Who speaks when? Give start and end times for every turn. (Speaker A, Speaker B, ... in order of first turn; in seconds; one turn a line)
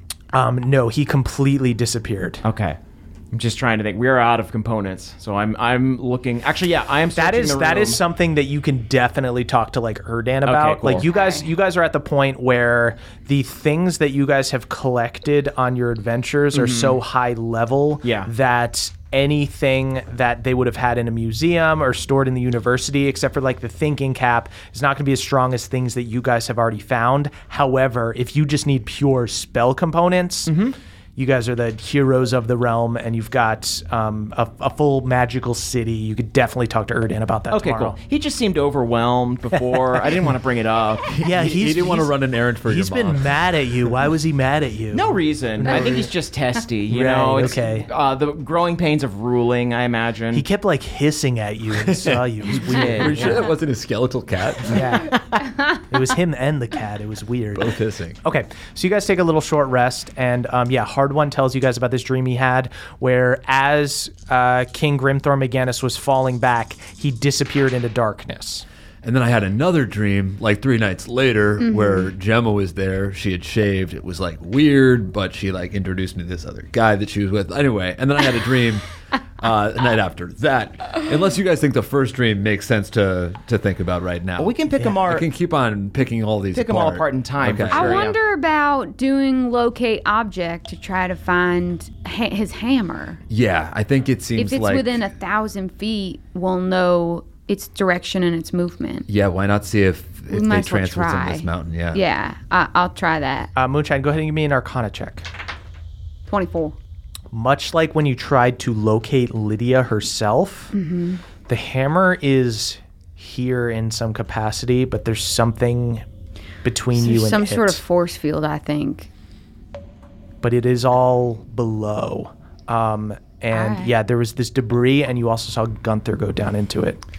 Speaker A: 0.3-2.4
Speaker B: 2.4-2.8
Speaker B: 3.3-8.0
Speaker A: 7.2-30.6
Speaker B: 10.4-11.1
Speaker C: 11.0-11.5
Speaker B: 16.5-17.0
Speaker B: 18.0-18.3
Speaker B: 30.5-30.8
Speaker A: 31.2-38.0
Speaker B: 37.5-41.1
Speaker A: 39.6-40.0
Speaker D: 41.1-43.4
Speaker A: 41.2-46.1
Speaker B: 44.9-50.5
Speaker A: 46.9-47.9
Speaker A: 50.3-53.5
Speaker D: 51.7-55.1
Speaker B: 52.5-53.4
Speaker A: 54.7-68.7
Speaker C: 55.4-55.7
Speaker D: 57.5-58.2
Speaker D: 69.0-78.9
Speaker C: 71.6-72.1
Speaker D: 79.4-88.0
Speaker B: 84.4-85.3
Speaker B: 86.5-88.2
Speaker C: 87.7-93.2
Speaker D: 93.3-95.0
Speaker C: 94.4-99.1
Speaker D: 99.1-102.0
Speaker C: 100.3-103.5
Speaker A: 103.6-105.3
Speaker C: 106.3-106.8
Speaker A: 107.3-110.7
Speaker C: 110.7-111.2
Speaker A: 111.5-116.0
Speaker A: 116.6-117.8
Speaker C: 116.9-119.1
Speaker A: 120.4-127.0
Speaker C: 123.5-123.9